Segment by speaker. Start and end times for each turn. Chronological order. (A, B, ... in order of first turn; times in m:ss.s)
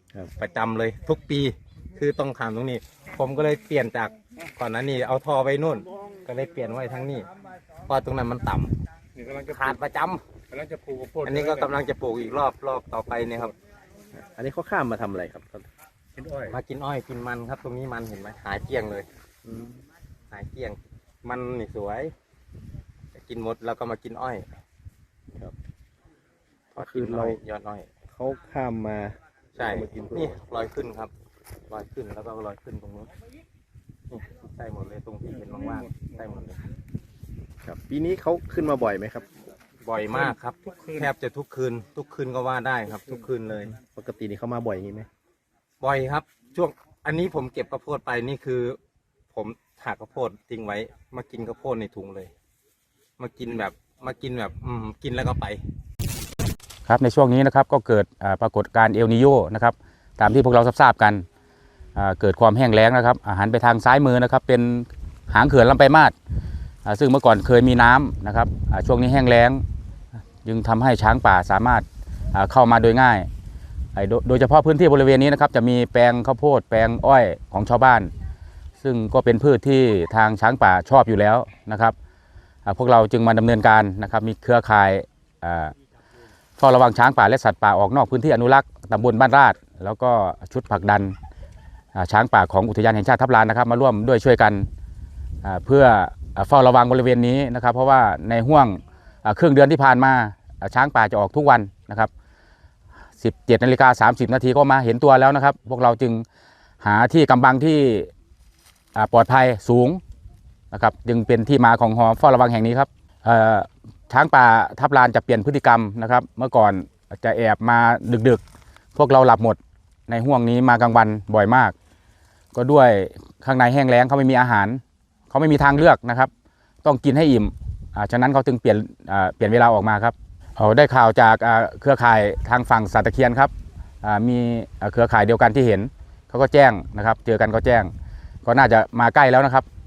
0:00.4-0:07.3 A
0:07.9-0:08.8 A
0:09.2-0:09.8 B
0:09.5-0:10.2 A
0:10.5-0:11.7 B
0:11.2-0:13.6 A
0:14.1-0:15.7 C
0:16.2-0:16.5 B
0:16.5-0:19.1 A
0:19.4-0:19.8 C
0:20.3-0:22.1 A
0:23.2-0:24.6 A
0:26.7-0:27.9 A
0:26.8-0:27.4 C
0:28.1-0:30.4 C
0:29.6-0:31.1 A
0:31.7-0:33.1 A
0:34.1-0:36.6 A
0:37.6-0:39.3 C
0:39.8-0:43.8 A
0:40.2-0:41.1 B
0:43.9-0:45.1 C
0:45.8-0:48.8 A
0:49.3-0:52.3 A
0:53.2-0:55.6 A
0:56.8-1:01.2 D
1:02.0-1:06.1 D
1:06.8-1:09.6 D
1:10.4-1:13.3 D
1:13.9-1:18.1 D
1:18.8-1:22.0 D
1:22.7-1:25.7 D
1:26.6-1:31.2 D
1:32.0-1:34.7 D
1:35.4-1:42.1 D
1:43.2-1:46.2 D
1:46.8-1:48.1 D
1:49.0-1:50.0 D
1:50.7-1:58.4 D
1:59.0-2:01.8 D
2:02.6-2:06.3 D
2:06.8-2:13.5 D
2:14.0-2:17.9 D
2:18.4-2:19.7 D